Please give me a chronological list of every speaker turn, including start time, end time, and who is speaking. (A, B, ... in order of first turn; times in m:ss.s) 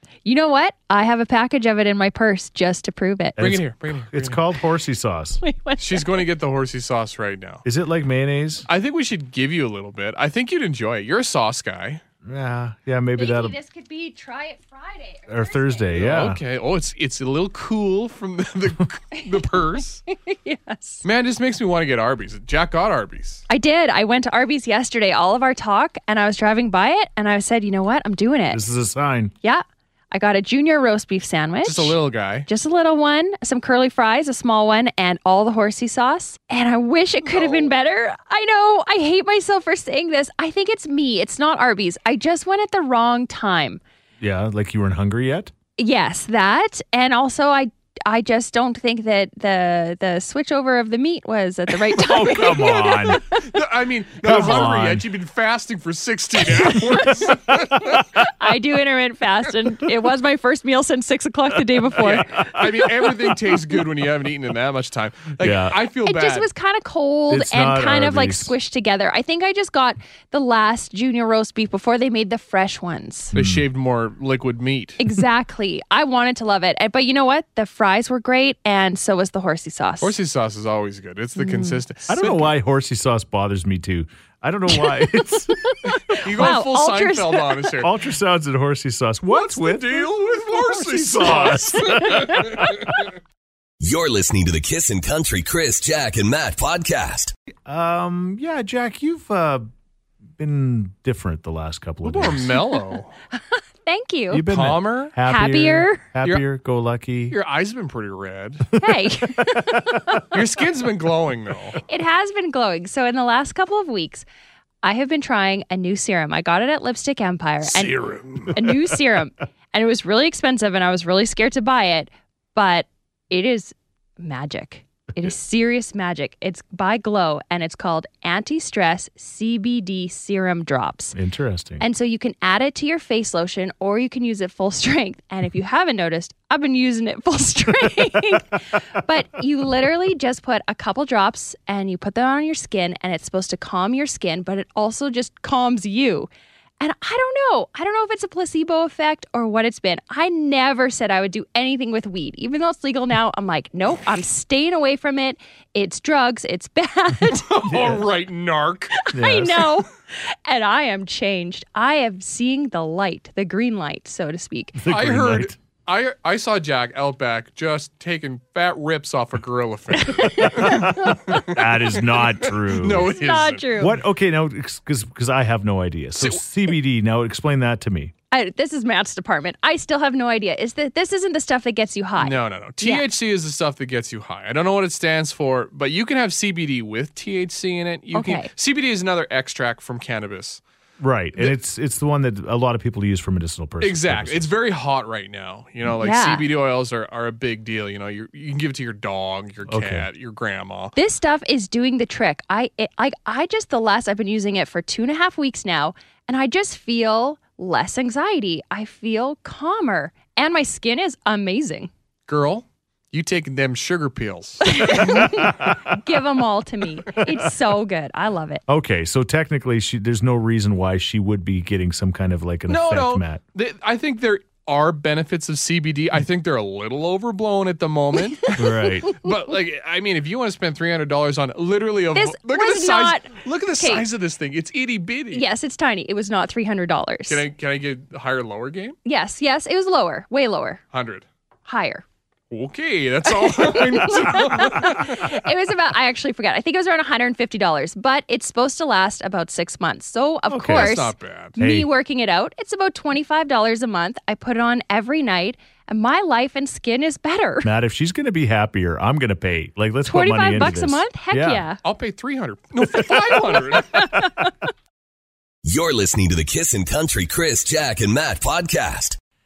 0:00.2-0:03.4 A
0:03.4-0:05.4 B
0:03.4-0:04.4 C
0:05.4-0:06.2 A
0:05.8-0:07.6 C
0:07.6-0:08.7 B
0:08.7-0:12.0 C
0:12.2-0:13.6 B
0:13.2-0:15.9 A
0:15.3-0:16.4 B
0:15.9-0:20.0 C
0:19.1-0:19.5 A
0:20.1-0:21.0 A
0:21.0-0:23.4 C
0:23.5-0:28.6 A
0:28.5-0:29.3 B
0:29.4-0:43.8 A
0:31.6-0:32.5 C
0:37.3-0:37.7 C
0:44.2-0:45.5 B
0:45.8-0:53.4 A
0:52.0-0:53.2 B
0:53.4-0:58.1 C
0:54.2-0:55.1 B
0:56.7-1:02.6 A
1:02.0-1:06.5 C
1:05.4-1:05.8 B
1:06.0-1:13.3 A
1:07.3-1:08.5 B
1:13.3-1:15.0 C
1:13.4-1:13.6 B
1:15.0-1:20.2 A
1:20.0-1:22.5 C
1:21.4-1:21.8 A
1:22.1-1:25.6 B
1:24.7-1:27.7 A
1:26.1-1:27.9 C
1:27.8-1:30.1 B
1:29.3-1:33.0 C
1:30.7-1:32.7 B
1:30.9-1:32.9 A
1:33.8-1:37.3 D
1:37.7-1:39.7 B
1:40.4-1:42.6 B
1:42.0-1:43.1 C
1:43.4-1:44.5 A
1:44.3-1:47.4 B
1:44.5-1:45.1 C
1:45.2-1:46.0 A
1:47.3-1:48.7 C
1:48.8-1:50.3 A
1:49.6-1:49.8 B
1:50.3-1:51.8 C
1:51.9-1:54.3 A
1:54.8-1:57.9 A
1:57.6-1:58.6 C
1:58.5-2:11.2 A
2:11.2-2:11.8 B
2:11.8-2:26.3 A
2:26.8-2:37.5 A
2:37.3-2:39.0 C
2:37.7-2:38.0 B
2:39.0-2:44.8 A
2:39.1-2:39.8 B
2:44.8-2:45.5 B
2:44.9-2:53.7 C
2:50.0-2:51.5 A
2:50.4-2:53.2 B
2:53.1-2:53.9 A
2:53.8-2:58.1 B
2:56.2-2:56.4 C
2:58.3-3:03.0 A
3:02.2-3:10.6 C
3:08.1-3:08.5 A
3:11.0-3:14.5 B
3:13.8-3:21.0 C
3:16.0-3:16.4 A
3:19.7-3:20.1 B
3:21.0-3:31.9 A
3:32.3-3:35.4 C
3:34.7-3:38.6 A
3:38.7-3:43.4 B
3:42.7-3:55.4 C
3:48.6-3:49.1 B
3:48.6-3:49.3 A
3:52.2-3:54.0 A
3:55.3-3:57.4 A
3:57.3-3:59.0 C
3:59.0-4:00.8 A
4:00.9-4:01.3 C
4:01.7-4:02.0 A
4:02.5-4:05.3 C
4:03.3-4:17.7 A
4:10.5-4:11.0 B
4:10.7-4:11.6 C
4:11.6-4:11.9 B
4:17.6-4:21.6 B
4:20.0-4:21.8 A
4:21.8-4:24.1 C
4:23.0-4:24.5 A
4:25.6-4:29.2 D